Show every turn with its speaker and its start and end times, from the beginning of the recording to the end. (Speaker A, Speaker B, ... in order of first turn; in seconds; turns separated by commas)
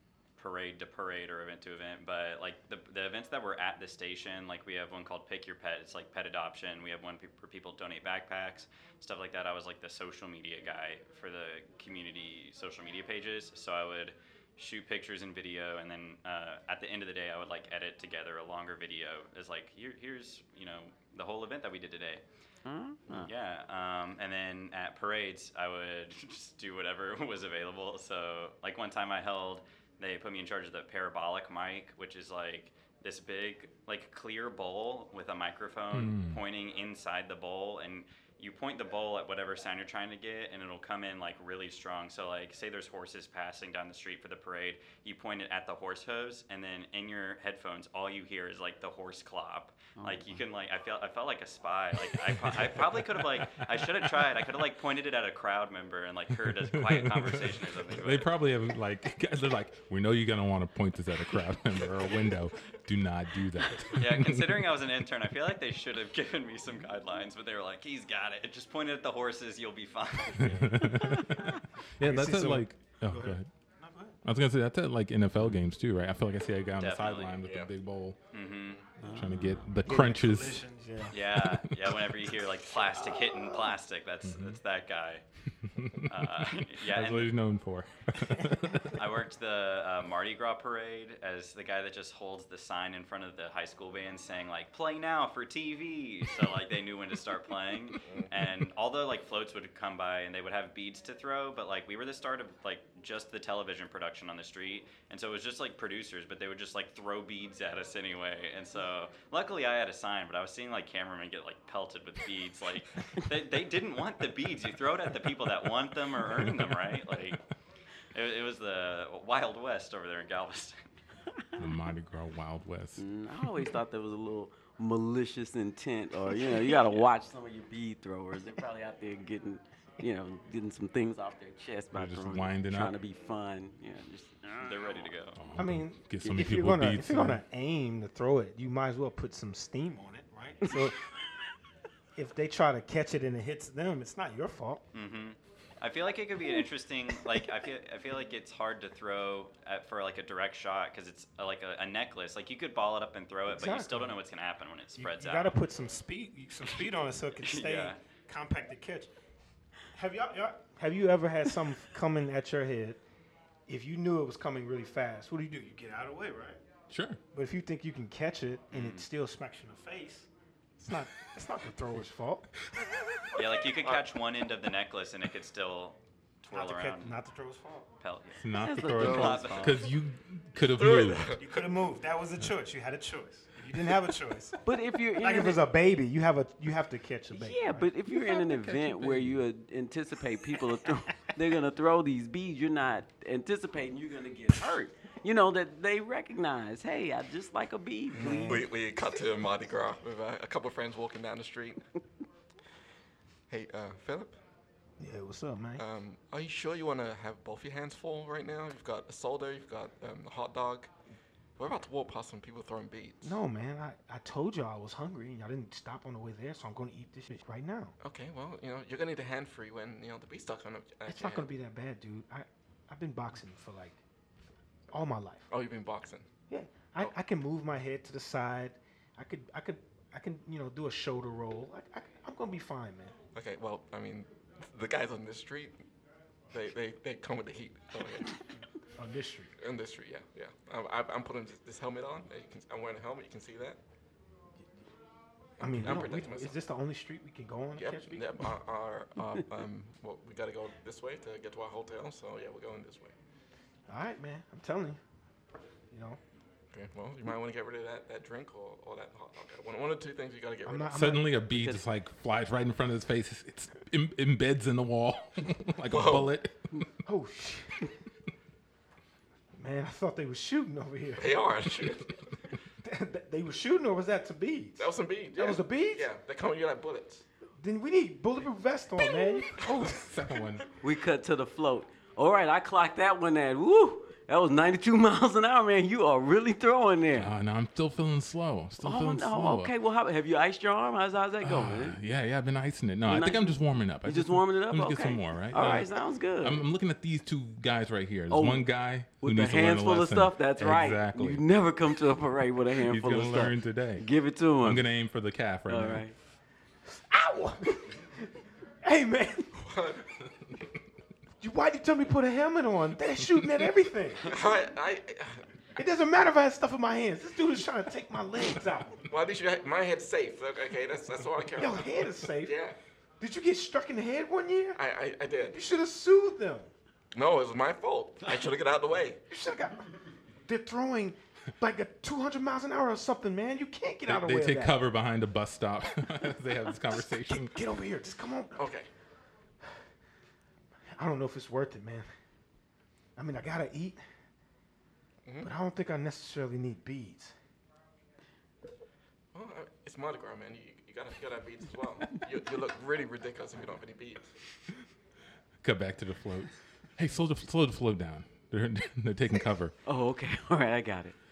Speaker A: 0.4-22.2, Speaker B: 22.7-23.3, Speaker A: 23.1-58.3, Speaker C: 35.9-36.4, Speaker B: 50.0-50.4, Speaker C: 52.1-54.3, Speaker C: 56.4-64.7, Speaker A: 63.9-71.2, Speaker C: 70.4-73.5, Speaker D: 70.4-70.8, Speaker E: 72.0-74.2, Speaker C: 74.2-78.2, Speaker A: 76.8-77.4, Speaker D: 77.4-77.7, Speaker A: 78.3-78.8, Speaker B: 79.0-79.7, Speaker C: 79.0-80.6, Speaker E: 79.8-81.2, Speaker A: 81.1-85.2, Speaker C: 81.3-82.0, Speaker E: 83.0-83.7, Speaker C: 84.2-84.6, Speaker C: 85.6-89.0, Speaker A: 86.1-87.3, Speaker A: 88.9-117.4, Speaker D: 98.0-98.3, Speaker C: 116.4-117.3, Speaker A: 118.1-120.8, Speaker C: 121.6-123.0, Speaker B: 123.0-135.1, Speaker C: 131.9-132.9, Speaker A: 134.6-135.4, Speaker C: 135.3-137.4, Speaker E: 135.6-141.0, Speaker B: 140.7-140.9, Speaker E: 142.2-144.8, Speaker A: 144.9-155.6, Speaker E: 153.5-154.2, Speaker E: 155.0-159.1, Speaker A: 157.4-158.0, Speaker E: 159.9-163.0, Speaker E: 163.7-166.6, Speaker C: 166.9-167.2, Speaker E: 167.3-172.5, Speaker A: 168.7-169.1, Speaker A: 173.3-177.2, Speaker E: 176.5-177.9, Speaker A: 178.0-179.9, Speaker C: 178.4-181.4, Speaker B: 178.6-179.7, Speaker D: 180.7-181.5, Speaker E: 181.4-184.6, Speaker B: 184.7-185.6, Speaker E: 185.2-187.9, Speaker B: 187.3-198.7, Speaker C: 188.2-189.4, Speaker D: 198.1-201.8, Speaker E: 198.2-198.7, Speaker D: 203.5-204.4, Speaker E: 205.0-205.8, Speaker D: 205.8-210.9, Speaker D: 211.6-213.4, Speaker E: 213.2-218.0, Speaker D: 218.0-221.5, Speaker E: 221.1-224.0, Speaker E: 224.9-225.5, Speaker D: 225.5-226.3, Speaker E: 226.5-233.2, Speaker D: 233.3-235.8, Speaker D: 236.5-238.4, Speaker E: 239.0-239.5, Speaker D: 239.6-243.8, Speaker D: 245.6-246.6, Speaker E: 245.6-248.4, Speaker D: 247.8-253.1, Speaker E: 253.9-255.0, Speaker E: 255.9-256.2, Speaker D: 256.7-261.0, Speaker E: 260.7-261.4, Speaker C: 260.9-266.6, Speaker B: 261.5-261.8, Speaker D: 265.9-266.3, Speaker E: 267.1-267.9, Speaker E: 269.6-271.5, Speaker D: 271.2-272.2, Speaker E: 272.8-276.1, Speaker D: 274.8-277.2, Speaker E: 277.6-279.8, Speaker C: 279.6-280.6, Speaker B: 280.8-287.3, Speaker C: 287.1-289.7, Speaker B: 288.8-292.0, Speaker C: 291.4-301.4, Speaker B: 293.1-296.6, Speaker B: 298.3-304.9, Speaker C: 302.8-304.1, Speaker C: 304.6-306.1, Speaker B: 305.7-306.1, Speaker E: 306.9-308.3, Speaker E: 308.8-309.5, Speaker D: 309.6-310.1, Speaker E: 311.4-314.4, Speaker D: 314.2-315.4, Speaker E: 315.8-319.1, Speaker D: 319.1-322.8, Speaker E: 321.6-322.6, Speaker E: 323.2-324.8, Speaker D: 324.8-325.6, Speaker E: 325.5-326.7, Speaker D: 327.1-329.2, Speaker E: 329.3-329.9, Speaker E: 330.4-334.8, Speaker C: 334.1-337.6, Speaker E: 336.9-338.7, Speaker D: 338.6-338.9, Speaker E: 341.0-342.1, Speaker E: 343.2-344.0, Speaker D: 345.2-345.5, Speaker E: 345.4-347.3, Speaker D: 349.3-354.3, Speaker C: 355.6-359.8, Speaker B: 359.9-361.2